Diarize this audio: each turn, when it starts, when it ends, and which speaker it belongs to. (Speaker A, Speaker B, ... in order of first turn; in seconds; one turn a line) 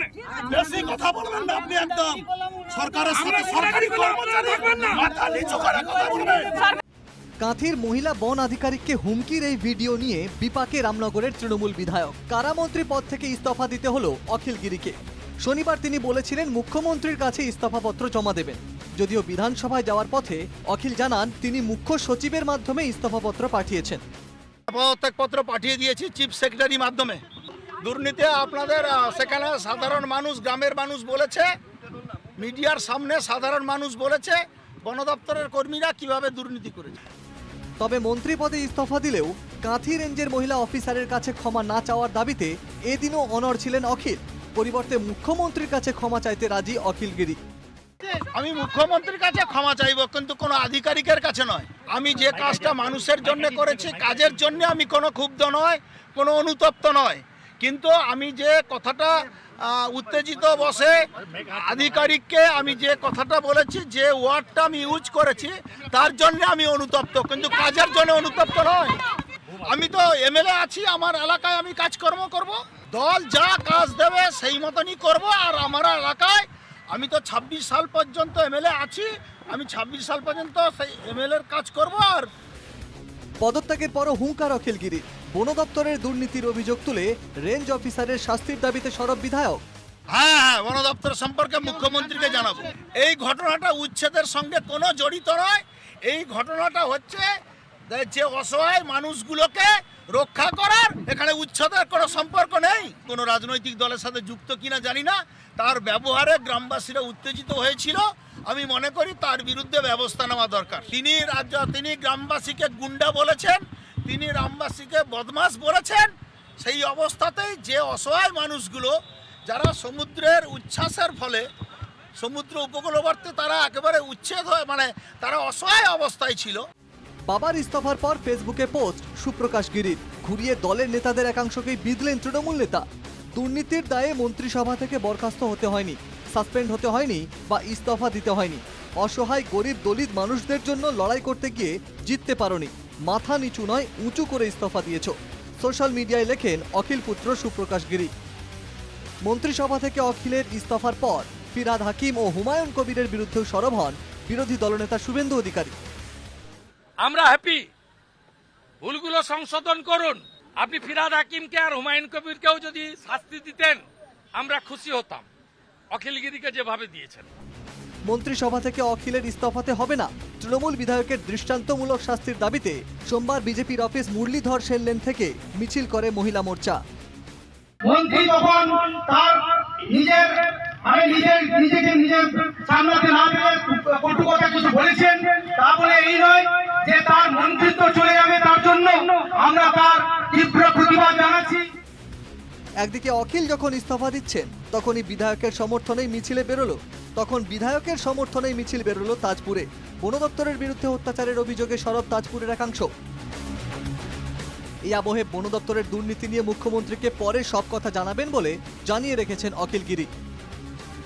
Speaker A: 0.2-6.7
Speaker B: 3.1-4.8
Speaker C: 7.4-24.0
Speaker A: 24.7-27.2
Speaker A: 27.8-31.5
Speaker A: 32.4-37.0
Speaker C: 37.8-47.4
Speaker A: 48.1-69.0
Speaker A: 69.5-82.3
Speaker C: 83.4-89.6
Speaker A: 90.1-97.2
Speaker A: 97.9-118.9
Speaker A: 119.5-121.4
Speaker A: 122.2-126.6
Speaker C: 127.3-132.8
Speaker C: 133.3-148.1
Speaker C: 149.2-155.7
Speaker B: 157.0-157.7
Speaker B: 158.8-163.8
Speaker B: 164.3-165.2
Speaker B: 165.9-167.3
Speaker C: 168.1-176.8
Speaker D: 177.8-191.6
Speaker C: 192.8-202.9
Speaker C: 204.9-210.1